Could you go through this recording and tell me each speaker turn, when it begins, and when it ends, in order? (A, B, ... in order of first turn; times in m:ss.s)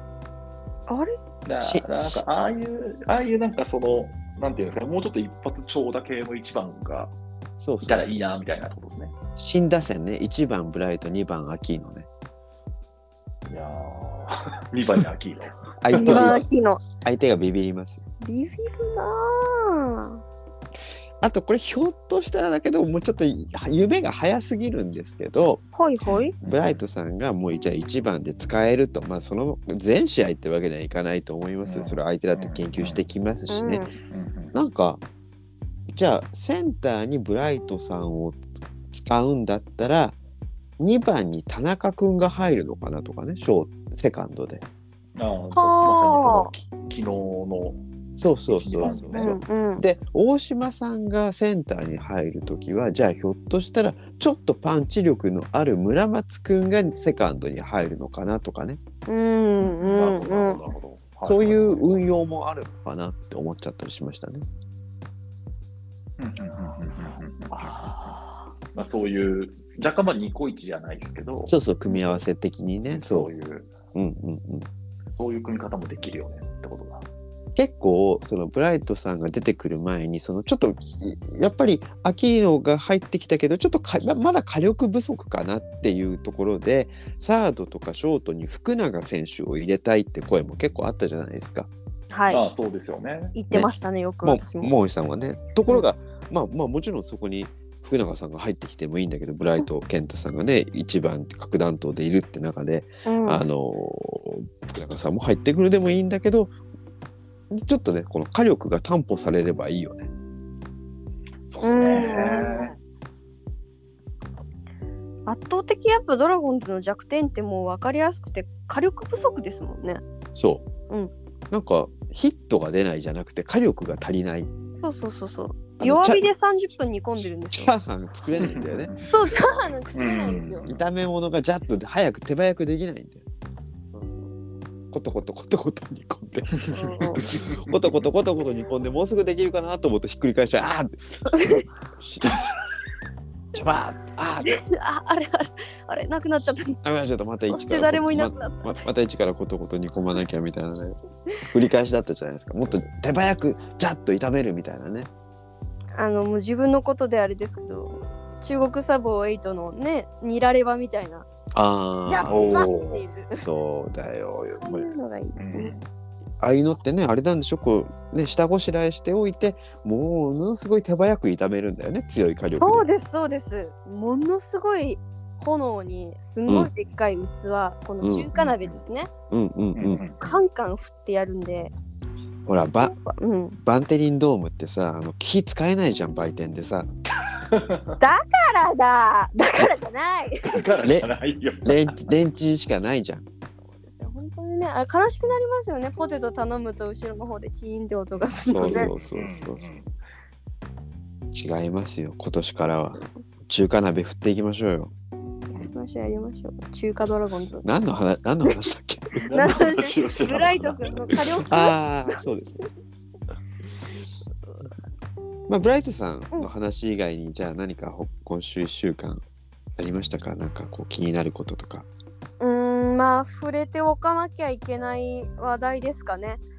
0:00.9-0:01.2 A
0:01.4-0:07.1 B
0:01.6-0:02.2 C
0:07.6-0:08.2 C
0:07.8-0:09.1 B
0:09.4-0:12.1 C
0:13.5-0:16.4 B
0:15.8-0:16.4 C
0:15.9-0:16.8 A
0:17.0-0:18.0 C
0:18.2-0:20.2 A
0:21.2-0:25.6 C
0:25.7-0:26.4 A
0:26.1-0:26.8 B
0:26.4-0:33.9 C
0:31.6-0:33.0 B
0:33.5-0:33.9 A
0:34.1-0:34.5 B
0:34.5-0:35.0 C
0:35.9-0:38.4 C
0:38.9-0:40.2 C
0:40.8-0:44.6 C
0:45.2-0:47.8 B
0:45.5-0:46.5 A
0:48.2-0:58.8 C
0:48.5-0:49.4 B
0:48.8-0:49.8 A
0:59.1-1:00.6 A
0:59.6-1:02.0 B
1:01.2-1:04.4 C
1:06.2-1:08.2 B
1:07.5-1:08.2 A
1:08.7-1:11.6 B
1:11.5-1:13.3 C
1:11.9-1:12.2 A
1:12.9-1:13.7 B
1:13.9-1:14.7 C
1:15.2-1:17.1 B
1:17.5-1:31.7 C
1:32.1-1:32.4 A
1:32.3-1:33.4 B
1:33.3-1:34.7 A
1:33.5-1:46.5 C
1:43.0-1:43.4 A
1:47.5-1:50.1 C
1:51.5-1:52.7 B
1:51.6-1:52.7 A
1:55.2-2:00.0 A
2:00.4-2:00.7 C
2:01.5-2:04.5 C
2:04.8-2:07.7 A
2:05.8-2:06.3 C
2:07.2-2:09.0 C
2:08.4-2:09.3 B
2:09.1-2:10.6 A
2:09.9-2:10.8 B
2:10.6-2:13.2 C
2:13.9-2:14.3 A
2:14.9-2:22.4 C
2:16.6-2:18.0 B
2:16.7-2:17.2 A
2:21.4-2:21.6 A
2:23.5-2:24.6 C
2:24.4-2:26.8 A
2:26.8-2:31.0 C
2:27.5-2:28.8 A
2:31.5-2:35.1 C
2:36.0-2:41.2 A
2:41.5-2:42.6 C
2:42.0-2:43.4 A
2:42.2-2:43.0 B
2:43.4-2:44.9 C
2:44.6-2:45.7 A
2:45.4-2:45.9 B
2:46.4-2:52.9 C
2:52.5-2:59.1 A
2:58.0-2:58.3 C
2:58.3-2:58.8 B
2:59.3-3:00.0 C
2:59.7-3:00.3 B
3:00.2-3:01.7 A
3:02.5-3:02.9 C
3:02.5-3:03.6 A
3:03.6-3:06.9 C
3:07.4-3:08.0 B
3:08.0-3:10.6 A
3:10.4-3:12.1 B
3:10.8-3:11.1 C
3:11.6-3:13.3 C
3:13.7-3:18.9 A
3:18.2-3:19.9 B
3:18.5-3:19.7 C
3:21.3-3:24.9 C
3:25.5-3:27.6 A
3:27.6-3:29.2 C
3:29.2-3:31.4 B
3:29.3-3:32.6 A
3:31.4-3:32.6 C
3:35.5-3:39.2 C
3:39.8-3:41.9 C
3:42.4-3:46.4 A